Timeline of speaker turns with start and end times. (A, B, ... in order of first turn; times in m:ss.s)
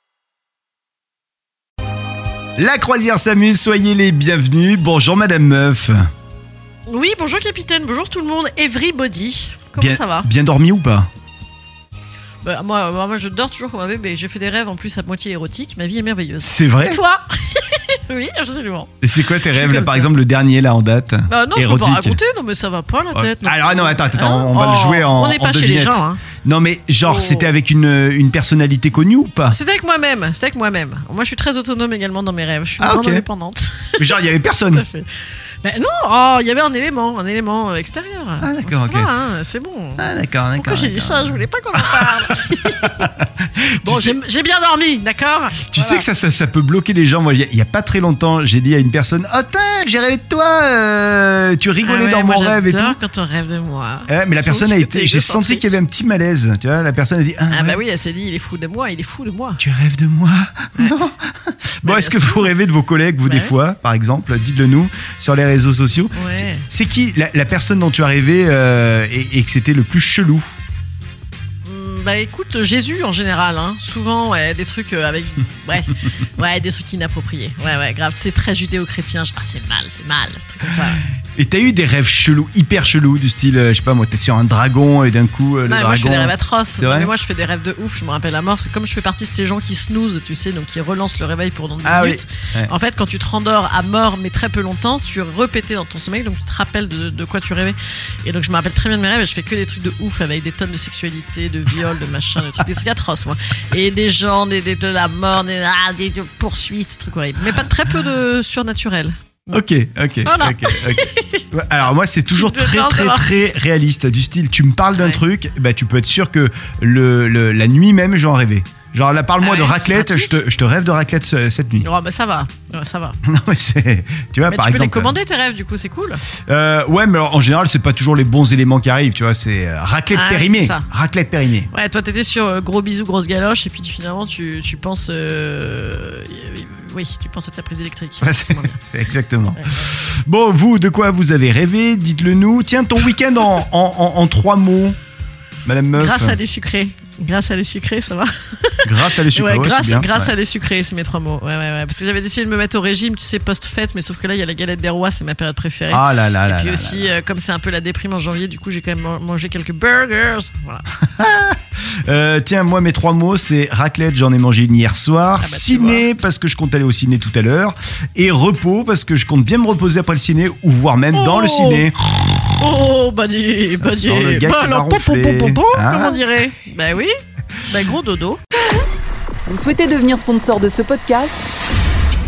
0:02.6-0:06.0 A
0:06.9-0:10.3 B
0:09.8-0:11.1 A
0:12.4-0:20.1 B
0:16.4-0:17.0 A
0:19.0-0:22.2 A
0:21.3-0:26.2 B
0:23.1-0:29.6 A
0:27.0-0:27.5 B
0:29.5-0:35.1 B
0:32.8-0:33.2 A
0:34.0-0:34.8 A
0:35.6-0:43.1 B
0:38.4-0:39.1 A
0:40.0-0:44.2 A
0:43.8-0:46.1 B
0:45.7-0:53.0 A
0:51.8-0:55.8 B
0:54.1-0:57.8 A
0:57.5-0:59.6 B
0:59.6-1:10.6 A
1:00.8-1:01.0 B
1:01.8-1:02.5 B
1:03.2-1:03.6 B
1:06.1-1:06.7 B
1:11.6-1:21.0 B
1:21.4-1:27.1 A
1:25.7-1:49.6 B
1:31.8-1:32.7 A
1:49.5-2:01.9 A
1:50.2-1:51.4 B
1:52.3-1:53.6 B
1:54.9-1:55.2 B
1:59.4-2:00.4 B
2:01.8-2:03.2 B
2:03.2-2:05.2 A
2:04.5-2:06.2 B
2:06.5-2:11.7 A
2:10.1-2:10.9 B
2:11.7-2:18.8 B
2:18.2-2:25.0 A
2:19.6-2:19.8 B
2:25.6-2:26.4 A
2:25.9-2:40.8 B
2:28.8-2:30.3 A
2:35.9-2:37.2 A
2:41.1-2:52.0 A
2:45.4-2:46.1 B
2:51.1-2:51.9 B
2:52.6-2:58.5 B
2:53.8-2:56.2 A
2:59.4-3:01.5 C